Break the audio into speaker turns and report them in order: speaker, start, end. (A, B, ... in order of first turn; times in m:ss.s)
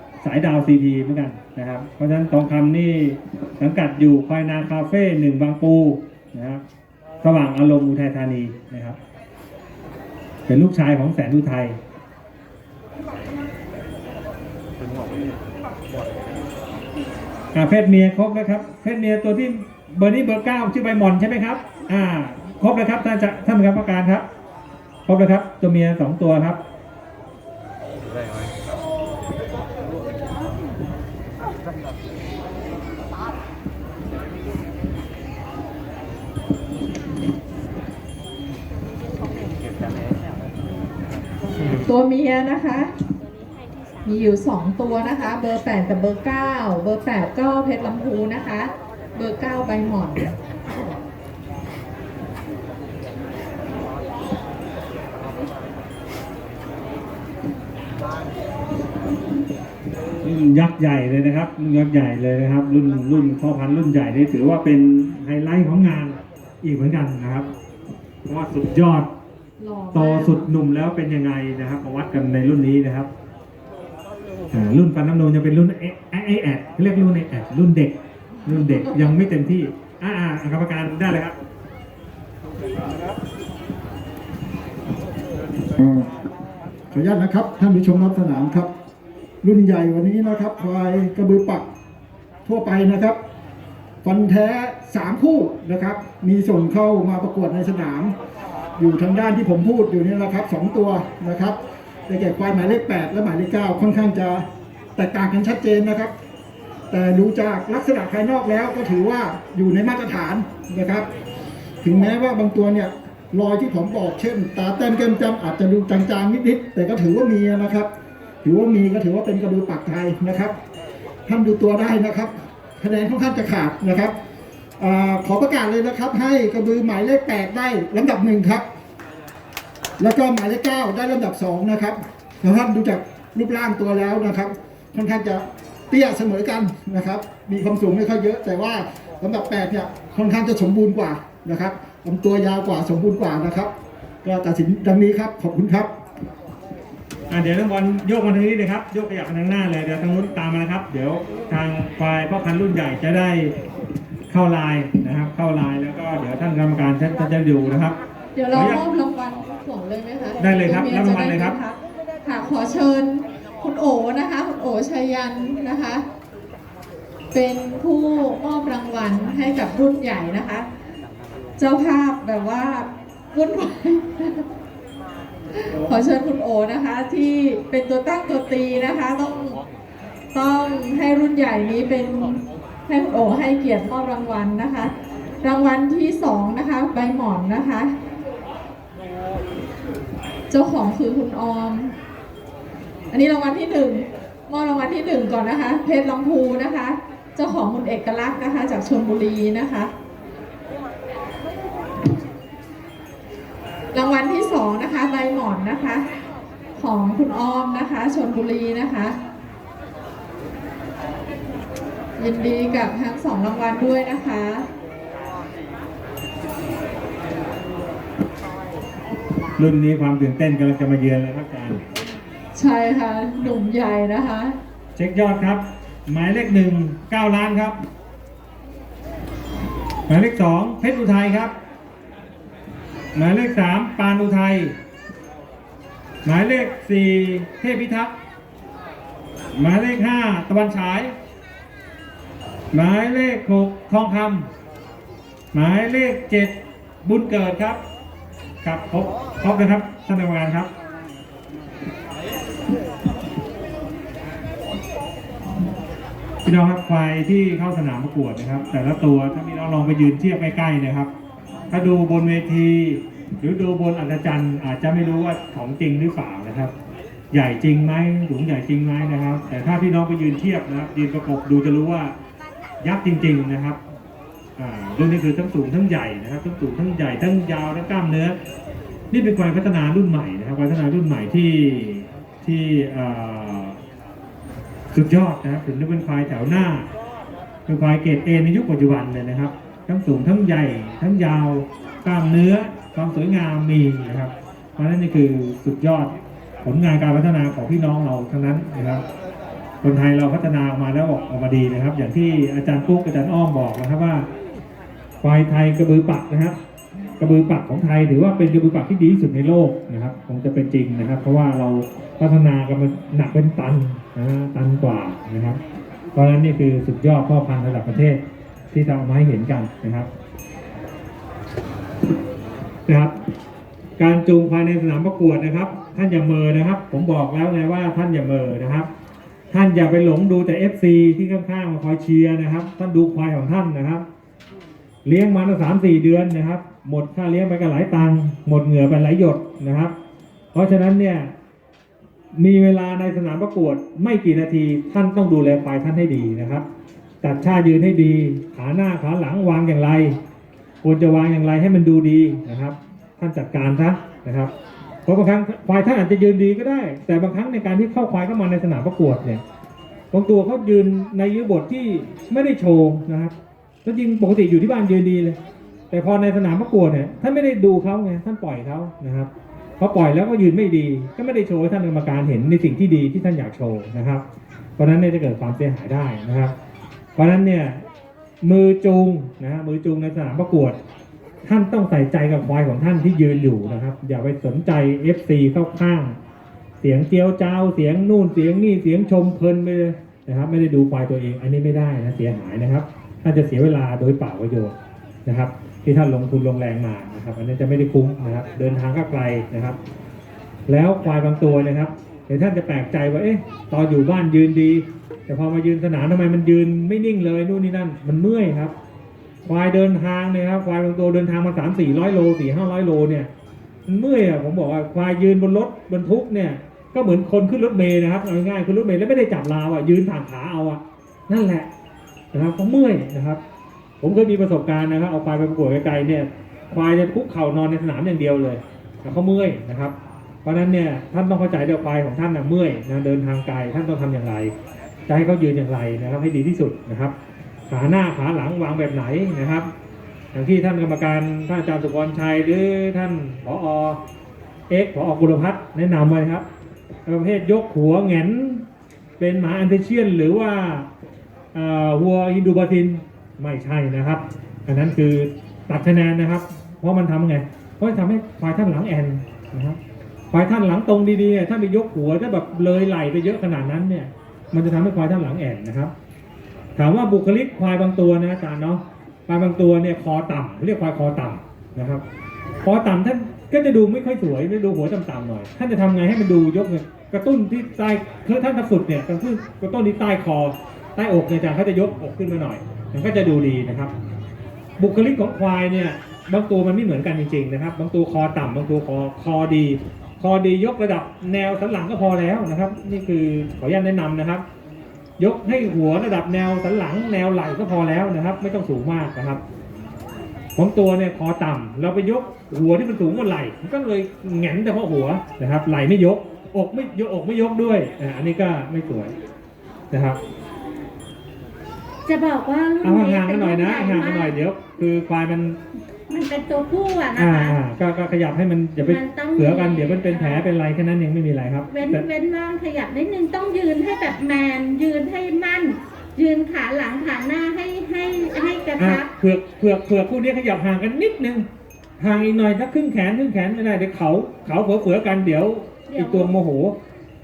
0:00.2-0:06.6 A
0:07.2-0:09.0 A
0:10.5-0:11.8 A
0:17.5-0:24.3 A
0:25.0-0:26.6 A
0:41.7-0:42.9 B
0:44.0-0:50.4 B
1:00.2-1:07.5 A
1:08.2-1:09.1 A
1:09.6-1:10.5 B
1:09.9-1:13.1 A
1:14.5-1:21.4 A
1:25.7-1:26.2 C
1:26.9-1:28.7 C
1:29.4-1:31.7 C
1:32.4-1:33.2 C
1:34.0-1:38.1 C
1:38.8-1:41.6 C
1:42.1-1:44.4 C
1:45.0-1:46.1 C
1:46.9-1:51.1 C
1:51.8-1:57.9 C
1:58.4-2:00.6 C
2:01.2-2:04.1 C
2:04.8-2:08.6 C
2:10.0-2:23.7 C
2:24.2-2:25.9 C
2:27.3-2:33.6 A
2:34.3-2:38.0 A
2:38.4-2:46.0 B
2:38.5-2:38.8 A
2:40.4-2:41.6 A
2:47.3-2:50.7 B
2:51.6-2:54.4 B
2:55.5-2:59.6 B
3:00.3-3:04.9 B
3:05.4-3:07.9 B
3:10.5-3:12.0 B
3:13.1-3:19.9 B
3:23.9-3:26.0 B
3:26.8-3:29.2 B
3:32.2-3:34.7 B
3:39.6-3:41.8 A
3:42.5-3:44.6 B
3:45.0-3:47.8 A
3:50.1-3:51.5 A
3:53.1-3:54.8 A
3:56.2-3:58.1 A
3:59.5-4:01.1 A
4:02.7-4:04.5 A
4:05.5-4:07.8 A
4:08.6-4:10.7 A
4:16.4-4:21.1 A
4:21.7-4:26.7 A
4:27.3-4:32.1 A
4:32.8-4:33.8 A
4:34.6-4:38.4 A
4:39.1-4:43.8 A
4:44.9-4:46.9 A
4:47.7-4:59.0 A
4:59.8-5:04.3 A
5:05.2-5:06.6 A
5:07.2-5:15.6 A
5:16.1-5:20.1 A
5:22.9-5:23.1 A
5:24.0-5:28.9 A
5:29.5-5:34.0 A
5:35.0-5:39.9 A
5:40.5-5:41.3 A
5:42.3-5:46.6 A
5:47.2-5:50.2 A
5:50.8-5:54.5 A
5:55.0-5:59.4 A
6:00.1-6:03.3 A
6:03.8-6:05.4 A
6:05.9-6:14.2 A
6:14.8-6:16.5 A
6:17.2-6:17.8 A
6:18.4-6:20.8 A
6:21.4-6:26.2 A
6:26.8-6:39.8 A
6:40.7-6:48.7 A
6:49.4-6:53.3 A
6:53.9-7:01.7 A
7:02.3-7:03.4 A
7:04.0-7:14.5 A
7:15.1-7:17.1 A
7:17.7-7:19.7 A
7:20.3-7:24.0 A
7:24.7-7:26.4 A
7:27.0-7:28.6 A
7:29.2-7:30.9 A
7:31.5-7:39.8 A
7:40.3-7:45.9 A
7:46.8-7:52.0 A
7:52.6-8:03.9 A
8:04.8-8:14.4 A
8:15.2-8:19.4 A
8:20.6-8:29.1 A
8:29.9-8:30.2 A
8:32.0-8:34.3 D
8:32.8-8:35.6 A
8:36.1-8:37.6 D
8:37.2-8:42.0 A
8:38.9-8:40.4 D
8:41.7-8:49.1 D
8:48.8-8:51.4 A
8:52.0-8:56.8 A
8:55.9-8:56.3 D